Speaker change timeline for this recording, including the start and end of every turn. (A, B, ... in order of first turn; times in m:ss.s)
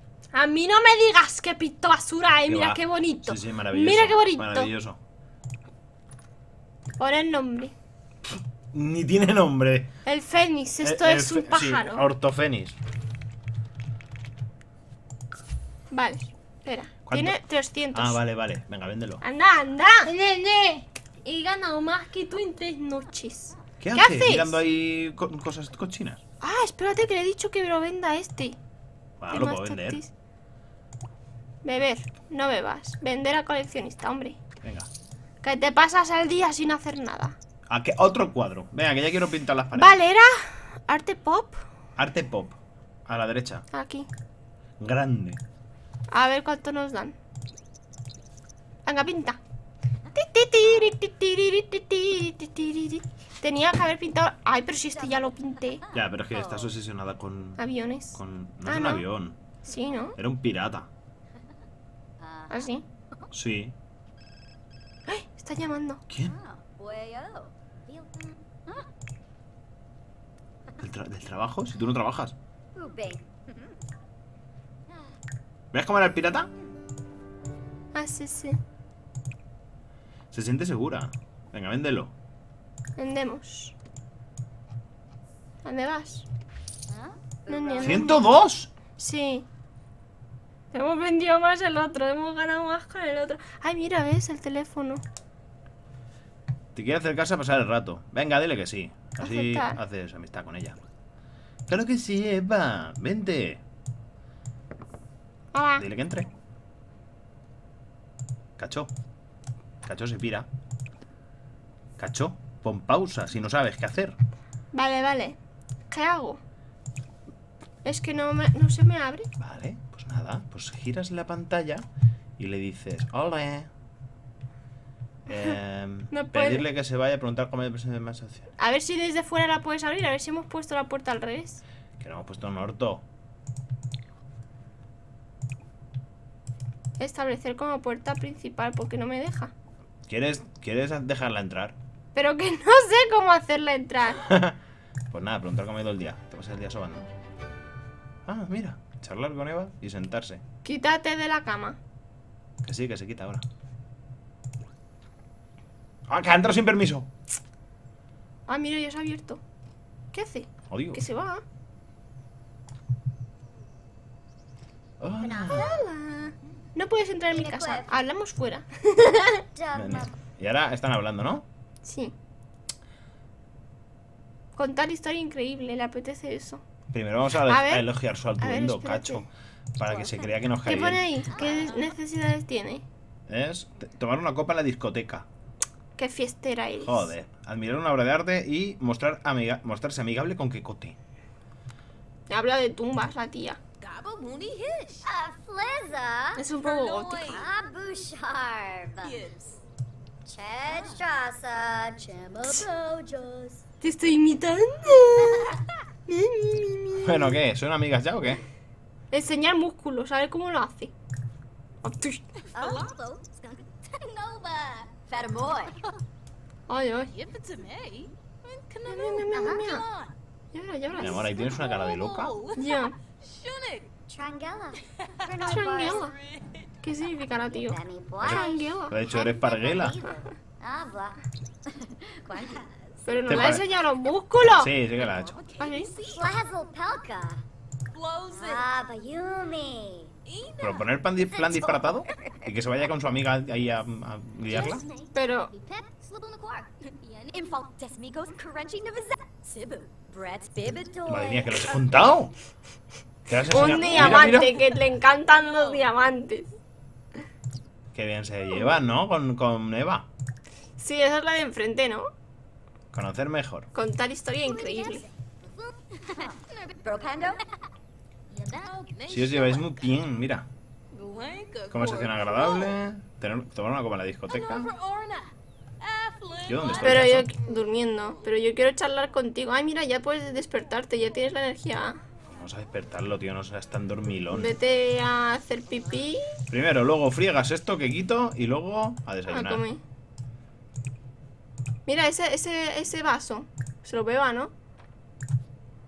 0:00.3-0:04.7 A
0:02.5-0:05.0 B
0:07.0-0:07.7 A
0:08.2-0:09.9 B
0:10.0-0:12.1 A
0:10.8-0:12.8 B
0:15.9-0:18.2 A
0:17.1-0:17.4 B
0:17.9-0:19.2 B
0:19.2-0:24.6 A
0:23.8-0:26.2 B
0:26.4-0:28.6 A
0:29.2-0:30.0 B
0:29.3-0:30.1 A
0:31.6-0:34.4 A
0:34.6-0:34.9 B
0:35.4-0:37.4 A
0:37.7-0:40.0 B
0:39.7-0:41.6 A
0:42.0-0:43.6 B
0:43.7-0:44.1 A
0:44.8-0:45.4 B
0:46.1-0:47.2 A
0:48.9-0:49.4 A
0:50.1-0:55.8 A
0:55.2-0:56.7 C
0:55.9-0:57.6 B
0:57.6-0:59.1 A
0:58.2-0:59.4 B
0:59.6-1:00.2 A
1:00.2-1:00.9 B
1:02.2-1:02.6 C
1:02.5-1:02.8 A
1:03.3-1:03.8 B
1:05.1-1:06.0 A
1:06.1-1:06.4 B
1:06.2-1:08.9 C
1:10.8-1:12.4 B
1:12.7-1:13.8 C
1:15.7-1:16.5 B
1:17.9-1:18.6 A
1:20.3-1:22.1 B
1:23.0-1:23.7 A
1:25.6-1:26.3 A
1:26.9-1:28.3 C
1:27.5-1:28.3 A
1:27.8-1:28.7 B
1:29.0-1:29.5 A
1:30.7-1:35.0 A
1:36.7-1:40.8 B
1:39.2-1:39.8 A
1:41.7-1:43.6 B
1:45.5-1:45.9 A
1:45.8-1:46.3 B
1:48.6-1:48.9 B
1:49.8-1:50.5 B
1:52.0-1:54.2 B
1:54.7-1:55.4 A
1:55.9-1:56.4 A
1:57.8-1:59.3 A
1:59.4-2:01.8 B
2:02.4-2:03.7 B
2:05.3-2:08.5 B
2:06.1-2:06.6 A
2:08.6-2:11.6 A
2:12.0-2:13.0 B
2:17.0-2:19.5 A
2:20.1-2:21.8 B
2:22.1-2:24.2 A
2:24.2-2:24.6 B
2:25.1-2:27.1 B
2:28.3-2:30.4 B
2:30.6-2:31.8 A
2:32.6-2:33.4 B
2:36.1-2:37.1 B
2:38.5-2:39.4 A
2:40.1-2:41.4 A
2:40.7-2:41.0 B
2:45.0-2:45.7 B
2:45.2-2:45.8 C
2:45.5-2:49.4 A
2:47.3-2:47.9 C
2:49.6-2:50.1 C
2:49.7-2:51.4 B
2:51.8-2:52.1 A
2:54.6-2:56.6 A
2:56.9-3:01.1 B
2:57.5-2:57.9 A
2:58.4-2:59.2 A
2:59.8-3:00.4 C
3:00.6-3:02.8 A
3:01.3-3:01.8 C
3:01.5-3:01.9 D
3:03.3-3:05.3 B
3:06.0-3:07.1 A
3:06.8-3:11.0 B
3:12.3-3:13.6 A
3:13.8-3:15.1 D
3:15.1-3:16.4 C
3:16.4-3:17.4 A
3:16.5-3:17.5 D
3:17.2-3:19.2 C
3:19.0-3:19.6 D
3:20.3-3:23.6 C
3:20.6-3:21.0 D
3:23.8-3:27.4 A
3:25.2-3:25.6 C
3:27.0-3:28.4 B
3:29.1-3:30.9 A
3:31.8-3:32.3 A
3:32.5-3:35.8 C
3:32.6-3:32.9 D
3:36.7-3:37.1 A
3:37.1-3:40.2 D
3:38.9-3:39.8 A
3:40.5-3:41.3 A
3:41.0-3:42.4 B
3:41.2-3:44.0 D
3:42.6-3:43.0 A
3:44.1-3:46.1 C
3:45.0-3:46.6 D
3:45.3-3:46.2 A
3:46.8-3:49.0 A
3:47.5-3:51.2 C
3:48.2-3:50.0 B
3:51.7-3:52.7 C
3:52.3-3:52.6 D
3:53.1-3:54.8 A
3:53.3-3:53.7 B
3:54.4-3:55.4 B
3:54.9-3:56.4 D
3:55.6-3:55.9 A
3:56.1-3:57.4 C
3:57.9-3:58.7 D
3:58.3-4:00.1 C
4:00.3-4:01.0 D
4:00.6-4:04.8 B
4:01.3-4:02.5 C
4:04.4-4:11.8 C
4:05.1-4:05.5 A
4:10.4-4:10.9 D
4:11.1-4:12.3 B
4:13.3-4:14.6 B
4:13.5-4:16.5 A
4:13.6-4:14.5 C
4:17.9-4:20.1 B
4:20.8-4:22.1 A
4:22.9-4:23.7 B
4:23.7-4:25.0 A
4:24.5-4:27.4 C
4:28.3-4:28.7 C
4:28.6-4:29.7 D
4:29.1-4:30.5 B
4:30.9-4:32.8 D
4:31.7-4:34.7 B
4:34.3-4:37.2 D
4:36.5-4:37.3 B
4:36.8-4:42.0 A
4:42.3-4:44.6 B
4:44.3-4:46.3 A
4:46.5-4:49.6 B
4:49.3-4:49.8 A
4:51.9-4:54.5 A